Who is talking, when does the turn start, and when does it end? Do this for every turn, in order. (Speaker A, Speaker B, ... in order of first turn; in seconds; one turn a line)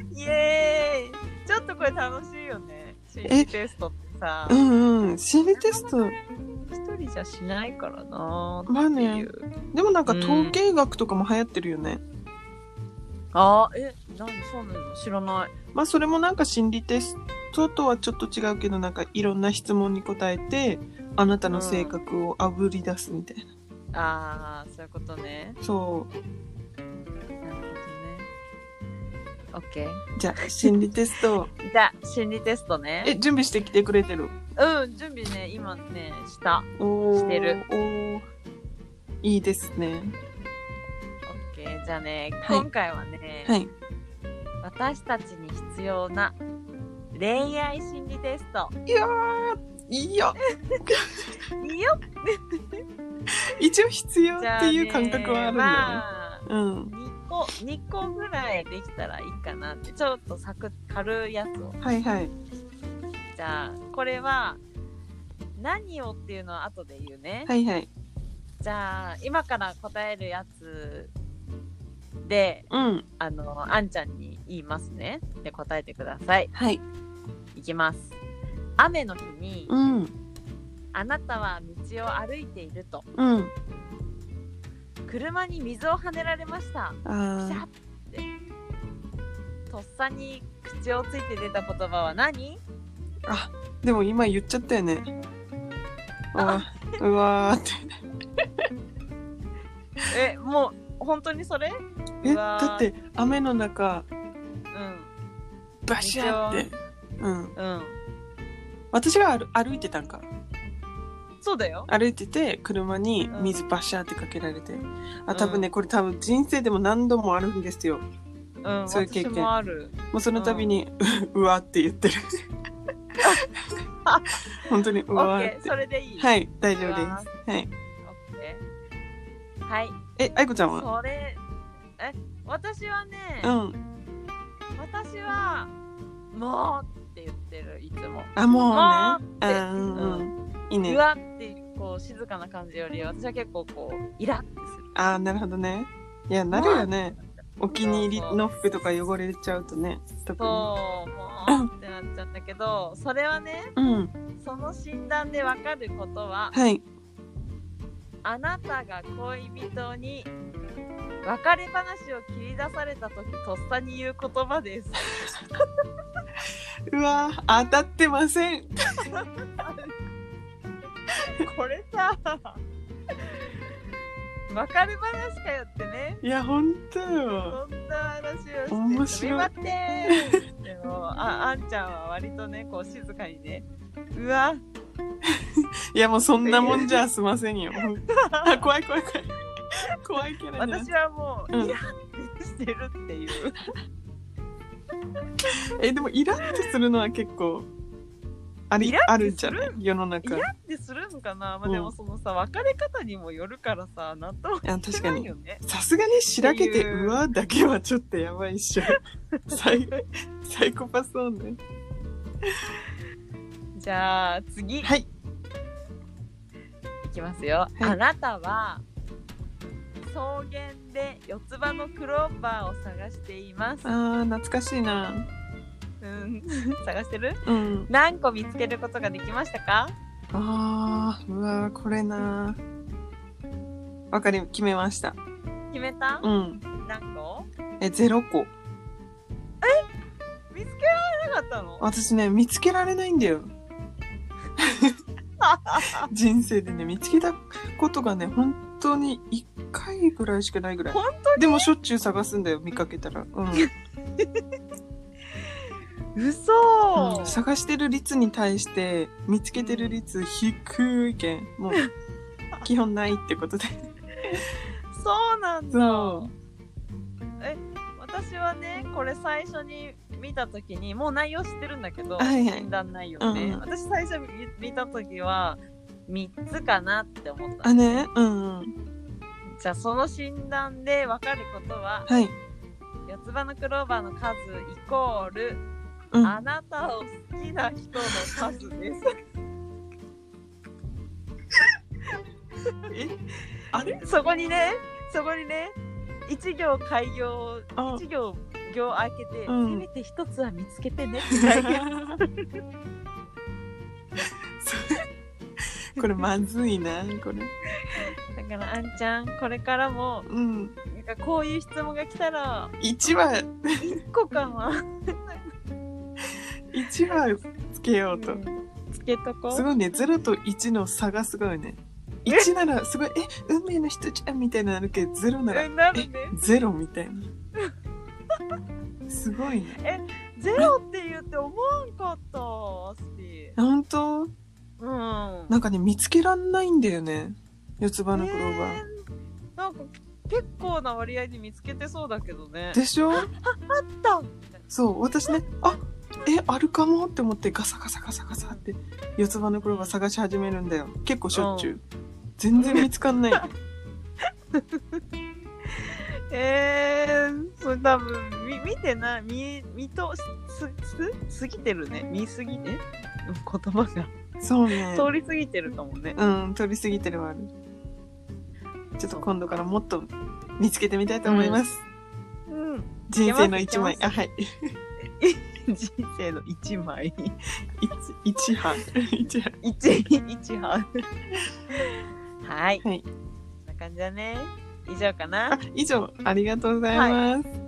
Speaker A: 0.1-4.6
Speaker B: 4.5-6.1
Speaker A: 5.5-9.5
Speaker B: 8.7-12.0
Speaker A: 10.1-10.6
Speaker A: 13.3-15.5
Speaker B: 15.7-23.4
Speaker A: 21.5-21.9
Speaker A: 23.9-25.6
Speaker B: 25.6-26.1
Speaker A: 27.4-28.3
Speaker A: 29.5-30.8
Speaker B: 30.2-31.5
Speaker A: 31.6-33.1
Speaker B: 33.0-34.3
Speaker A: 34.6-37.6
Speaker B: 36.8-38.2
Speaker B: 39.2-40.1
Speaker A: 41.2-43.5
Speaker B: 43.5-43.7
Speaker A: 44.6-46.4
Speaker A: 47.1-48.7
Speaker B: 48.9-51.3
Speaker A: 50.4-50.9
Speaker A: 51.5-52.8
Speaker B: 53.5-56.9
Speaker A: 54.4-61.8
Speaker B: 61.8-62.3
Speaker A: 63.3-64.6
Speaker A: 65.6-67.5
Speaker B: 67.5-67.9
Speaker A: 68.6-71.1
Speaker A: 72.2-72.7
Speaker B: 72.7-73.0
Speaker A: 73.2-76.5
Speaker B: 76.5-76.8
Speaker A: 77.5-78.1
Speaker A: 78.8-79.7
Speaker B: 79.7-80.1
Speaker A: 80.9-83.0
Speaker B: 83.1-83.5
Speaker A: 85.0-88.3
Speaker B: 87.0-87.6
Speaker A: 89.7-92.6
Speaker B: 93.2-95.1
Speaker B: 96.3-97.9
Speaker A: 96.4-97.0
Speaker A: 100.1-103.3
Speaker B: 102.2-104.1
Speaker A: 104.7-105.1
Speaker B: 105.8-107.5
Speaker A: 106.0-106.7
Speaker A: 107.5-108.0
Speaker B: 108.9-110.3
Speaker A: 111.4-111.9
Speaker B: 111.9-118.0
Speaker A: 113.3-113.6
Speaker A: 115.3-115.7
Speaker A: 118.6-120.7
Speaker B: 118.9-119.5
Speaker B: 120.1-122.2
Speaker A: 123.2-123.4
Speaker A: 124.0-127.3
Speaker B: 124.6-127.7
Speaker A: 128.0-128.6
Speaker A: 129.7-129.9
Speaker B: 130.2-130.9
Speaker A: 130.6-131.4
Speaker A: 132.0-133.5
Speaker B: 133.4-133.8
Speaker A: 134.8-135.7
Speaker A: 136.3-140.2
Speaker B: 138.3-141.0
Speaker A: 140.8-144.9
Speaker B: 144.9-150.7
Speaker A: 146.5-148.4
Speaker A: 150.4-153.7
Speaker B: 153.8-154.1
Speaker A: 154.4-156.5
Speaker B: 156.5-156.8
Speaker A: 158.2-160.3
Speaker A: 161.2-165.4
Speaker B: 166.9-169.1
Speaker A: 169.0-169.9
Speaker A: 171.3-172.6
Speaker A: 174.5-176.2
Speaker B: 176.2-177.6
Speaker A: 177.5-184.6
Speaker B: 178.7-179.5
Speaker B: 185.2-189.3
Speaker A: 186.4-187.0
Speaker A: 188.1-188.7
Speaker B: 189.9-190.9
Speaker A: 190.6-193.7
Speaker B: 191.5-191.8
Speaker B: 195.5-197.7
Speaker B: 198.7-200.5
Speaker A: 198.8-205.6
Speaker B: 201.6-201.9
Speaker B: 204.6-211.6
Speaker A: 206.4-207.2
Speaker A: 208.8-210.0
Speaker A: 213.7-214.9
Speaker B: 214.8-215.1
Speaker A: 217.0-218.8
Speaker A: 220.1-223.9
Speaker B: 223.8-225.3
Speaker A: 226.0-229.9
Speaker B: 227.4-227.9
Speaker B: 230.3-232.6
Speaker B: 234.1-235.2
Speaker A: 235.7-236.3
Speaker B: 236.2-236.6
Speaker A: 236.8-237.5
Speaker B: 237.8-238.5
Speaker A: 240.5-241.9
Speaker B: 241.8-243.5
Speaker B: 244.6-244.9
Speaker A: 245.4-246.1
Speaker B: 246.1-253.7
Speaker A: 250.9-251.7
Speaker A: 253.5-254.4
Speaker A: 255.4-255.6
Speaker A: 256.1-257.4
Speaker B: 257.0-261.8
Speaker A: 259.6-260.0
Speaker B: 262.6-263.9
Speaker A: 264.2-266.3
Speaker B: 265.7-266.3
Speaker A: 267.4-278.1
Speaker B: 272.2-272.7
Speaker B: 273.2-273.6
Speaker B: 277.6-278.7
Speaker A: 279.6-282.1
Speaker B: 282.1-282.3
Speaker A: 283.1-285.6
Speaker A: 286.2-289.1
Speaker A: 292.6-292.9
Speaker B: 292.9-293.1
Speaker B: 293.7-294.0
Speaker A: 293.8-295.8
Speaker A: 296.3-302.6
Speaker B: 297.8-298.0
Speaker B: 299.5-299.9
Speaker B: 301.4-302.2
Speaker B: 304.6-305.0
Speaker B: 306.0-307.5
Speaker A: 307.9-310.3
Speaker B: 310.3-310.8
Speaker A: 310.9-312.7
Speaker B: 312.8-313.9
Speaker A: 313.8-315.5
Speaker B: 316.7-318.4
Speaker A: 318.1-319.7
Speaker B: 319.5-327.3
Speaker A: 325.5-326.5
Speaker B: 329.1-329.8
Speaker A: 329.8-333.6
Speaker B: 333.6-334.3
Speaker A: 334.8-335.6
Speaker B: 335.5-338.8
Speaker A: 338.1-338.9
Speaker A: 339.6-344.6
Speaker B: 342.7-343.3
Speaker B: 344.7-351.8
Speaker A: 349.6-349.9
Speaker A: 351.3-351.8
Speaker B: 352.4-353.4
Speaker A: 352.6-353.5
Speaker A: 354.5-355.0
Speaker A: 355.7-364.1
Speaker B: 364.4-365.1
Speaker A: 364.9-366.2
Speaker B: 366.1-367.5
Speaker B: 369.0-371.8
Speaker A: 369.1-369.5
Speaker A: 371.2-371.6
Speaker A: 372.5-374.2
Speaker B: 373.1-374.7
Speaker A: 375.1-377.3
Speaker B: 377.8-379.6
Speaker A: 379.6-381.0
Speaker A: 381.8-382.8
Speaker A: 383.6-385.6
Speaker B: 385.5-387.5
Speaker A: 386.9-387.2